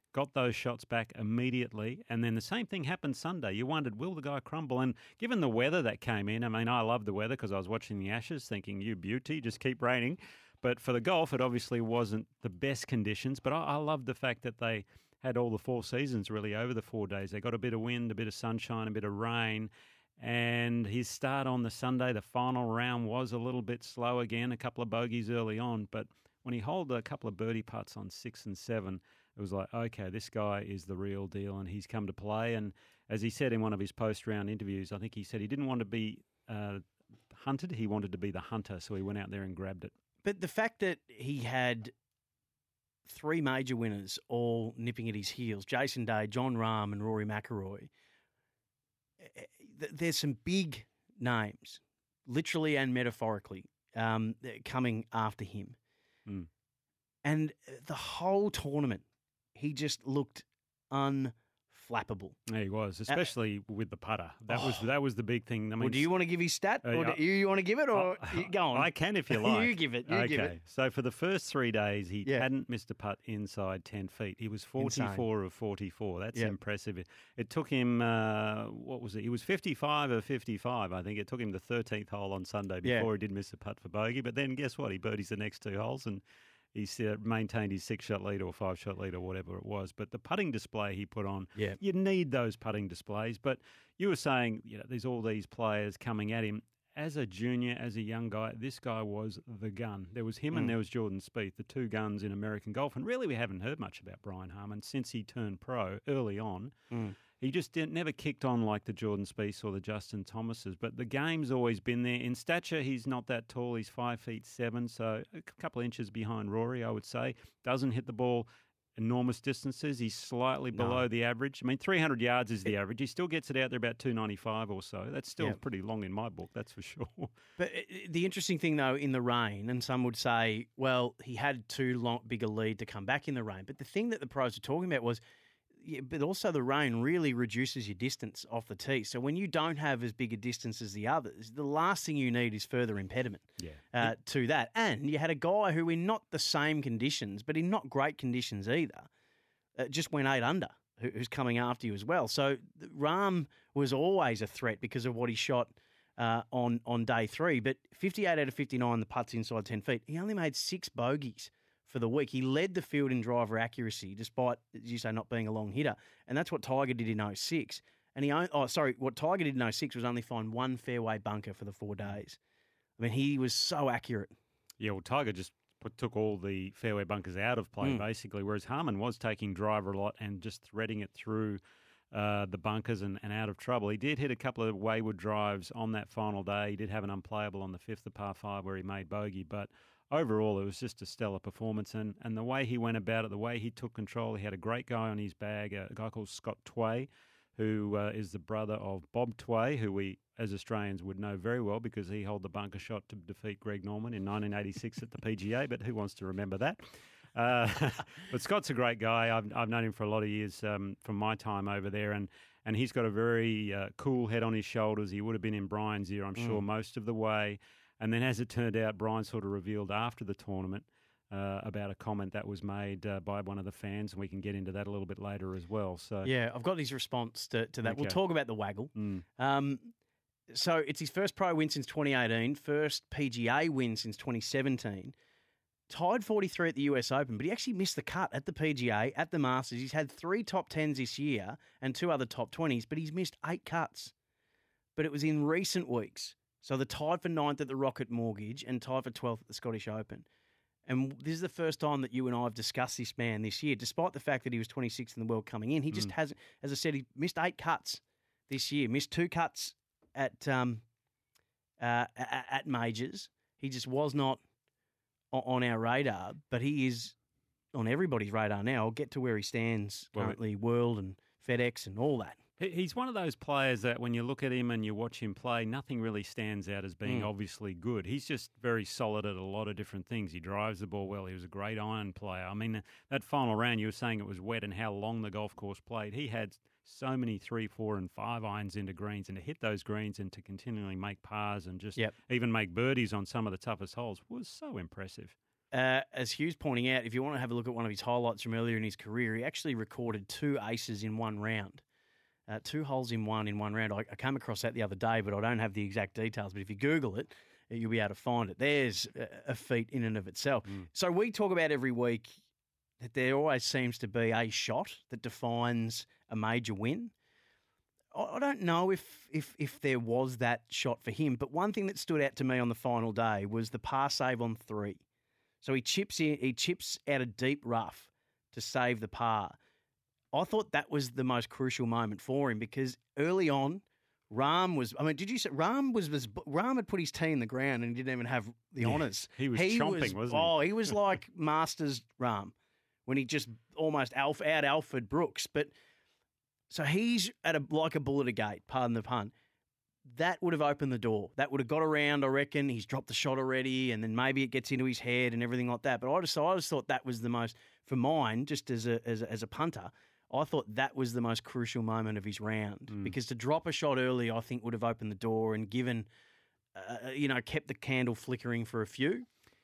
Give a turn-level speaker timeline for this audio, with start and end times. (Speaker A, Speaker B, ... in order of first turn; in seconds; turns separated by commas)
Speaker A: 0.1-39.9, Speaker B: 40.2-41.9, Speaker B: 43.1-47.9, Speaker B: 49.2-55.8, Speaker B: 57.2-59.0, Speaker B: 59.5-62.4, Speaker A: 62.5-66.1, Speaker B: 64.5-64.8, Speaker B: 65.8-70.5, Speaker A: 66.8-67.2, Speaker A: 67.9-86.2, Speaker B: 74.8-75.2, Speaker A: 86.7-106.7, Speaker B: 106.9-107.2, Speaker A: 107.4-127.3, Speaker B: 120.7-121.0, Speaker B: 127.6-135.2, Speaker B: 135.8-149.1, Speaker A: 143.6-144.1, Speaker B: 149.8-172.4, Speaker B: 173.0-174.3, Speaker A: 174.8-181.6, Speaker A: 182.1-226.3, Speaker B: 216.3-216.6, Speaker B: 226.2-229.9, Speaker A: 227.8-228.2, Speaker A: 228.9-229.2, Speaker B: 230.5-235.1, Speaker B: 235.9-244.1, Speaker B: 244.9-250.2, Speaker B: 250.8-260.8, Speaker B: 261.8-264.4, Speaker B: 265.3-267.1, Speaker B: 267.7-272.4, Speaker A: 272.6-295.3, Speaker B: 295.7-301.8, Speaker B: 302.5-312.4, Speaker B: 313.0-317.1, Speaker B: 318.1-325.0, Speaker B: 325.6-329.6, Speaker B: 330.3-342.5, Speaker A: 338.8-340.9, Speaker B: 343.1-345.7, Speaker B: 346.7-349.3, Speaker B: 350.0-366.1, Speaker A: 362.9-363.1, Speaker B: 366.7-369.2